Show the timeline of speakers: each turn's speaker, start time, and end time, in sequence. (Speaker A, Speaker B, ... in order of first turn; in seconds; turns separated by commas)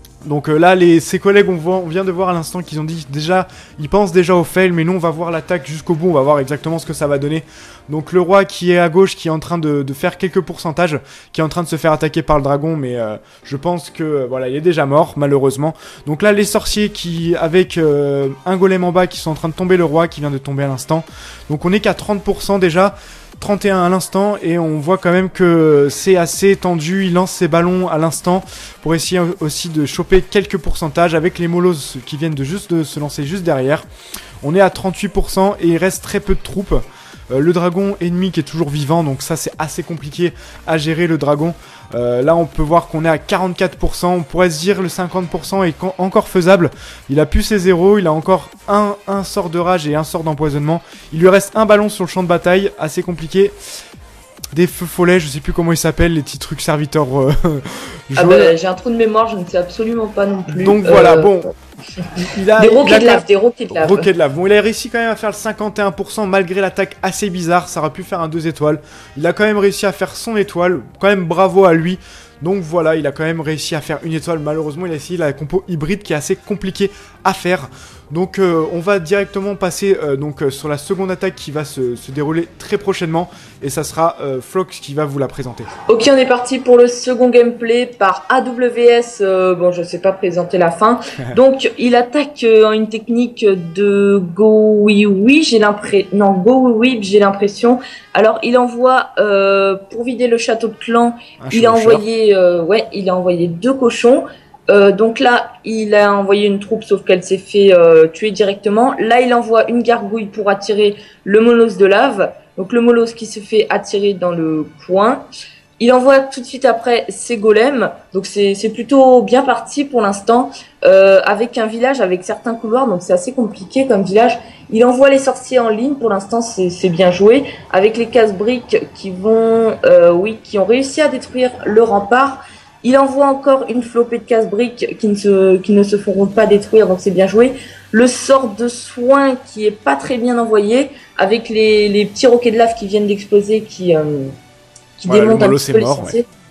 Speaker A: 0.2-33.9, Speaker A: 34.4-53.5, Speaker A: 54.5-58.5, Speaker B: 58.2-61.3, Speaker A: 60.5-61.5, Speaker B: 62.0-64.1, Speaker A: 62.3-85.7, Speaker B: 85.9-115.2, Speaker A: 101.4-102.0, Speaker B: 115.8-144.3, Speaker B: 145.0-146.2, Speaker A: 145.1-146.2